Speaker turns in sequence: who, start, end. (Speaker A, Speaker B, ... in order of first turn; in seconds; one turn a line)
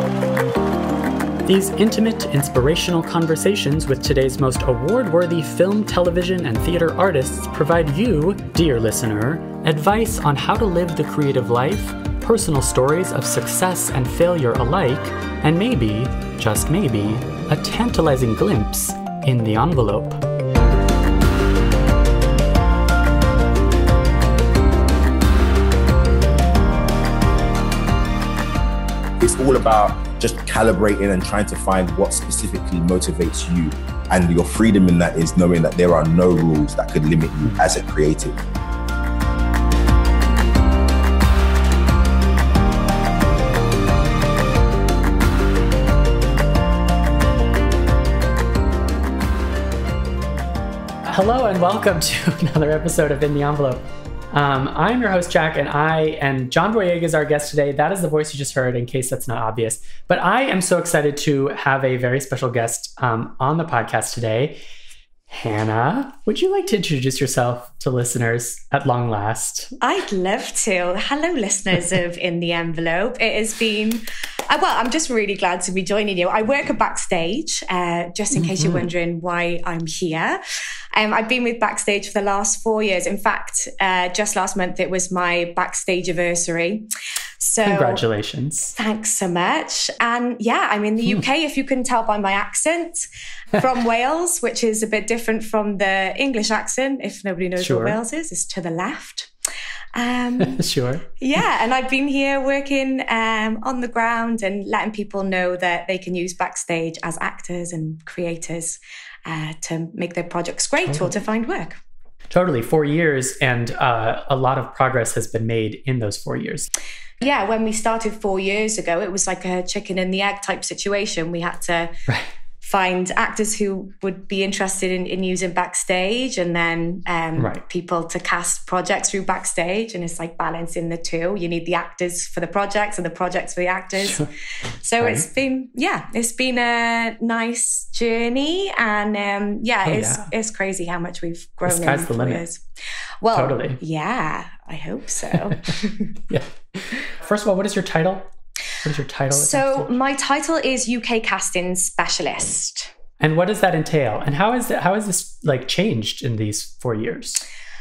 Speaker A: 1.5-20.2
Speaker B: 29.2-38.4
Speaker A: 51.0-64.6
Speaker A: 65.3-69.8
Speaker C: 69.8-80.4
Speaker A: 78.3-78.9
Speaker C: 80.9-86.9
Speaker C: 87.4-88.0
Speaker A: 87.6-88.7
Speaker C: 88.8-99.3
Speaker A: 97.6-98.0
Speaker C: 100.0-100.6
Speaker A: 100.4-101.0
Speaker C: 101.2-111.8
Speaker A: 110.8-111.1
Speaker A: 112.3-116.7
Speaker C: 117.2-121.9
Speaker C: 122.6-134.3
Speaker A: 134.0-134.3
Speaker C: 134.8-142.6
Speaker A: 135.0-135.2
Speaker A: 139.8-140.3
Speaker A: 141.7-142.4
Speaker C: 143.2-146.2
Speaker A: 143.3-143.8
Speaker A: 146.3-148.2
Speaker A: 148.8-149.9
Speaker C: 149.3-152.9
Speaker A: 153.2-157.4